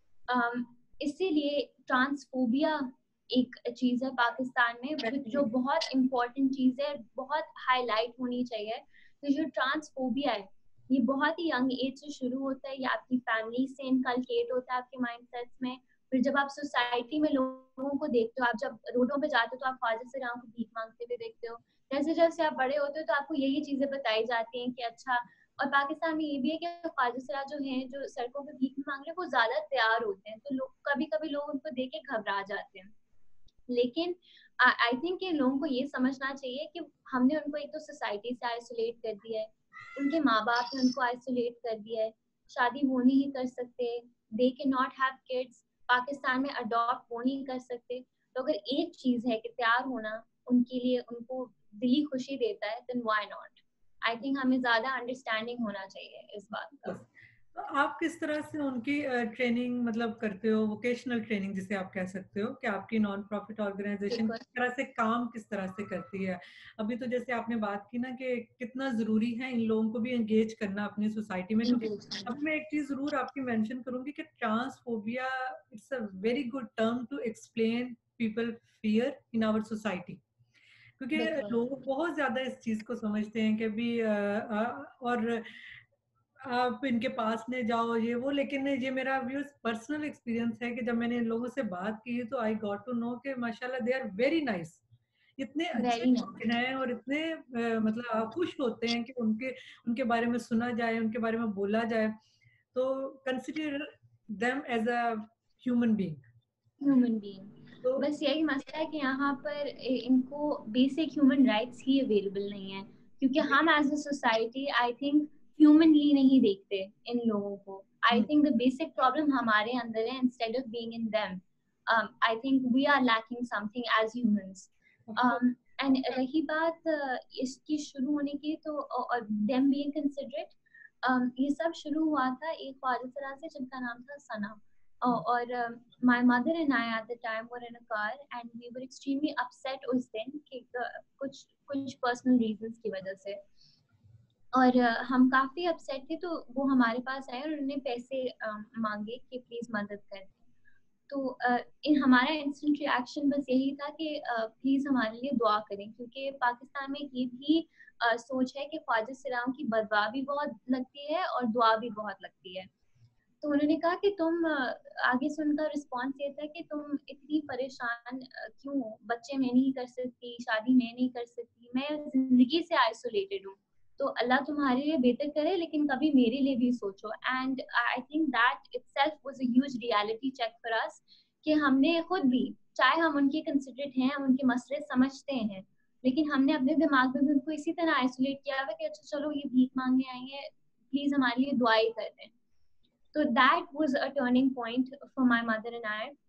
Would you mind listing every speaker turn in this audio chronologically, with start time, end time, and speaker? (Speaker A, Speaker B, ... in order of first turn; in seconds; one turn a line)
Speaker A: 0.3-32.9
Speaker B: 5.1-5.5
Speaker A: 33.7-57.0
Speaker B: 56.8-80.2
Speaker A: 64.1-64.4
Speaker A: 71.6-72.4
Speaker B: 81.0-85.8
Speaker A: 81.2-81.7
Speaker B: 86.5-94.8
Speaker B: 95.4-102.1
Speaker A: 95.7-96.4
Speaker B: 102.7-106.2
Speaker A: 106.8-143.4
Speaker B: 107.8-108.1
Speaker B: 125.1-125.4
Speaker A: 144.5-150.4
Speaker A: 151.1-162.7
Speaker A: 163.4-192.3
Speaker A: 193.1-196.1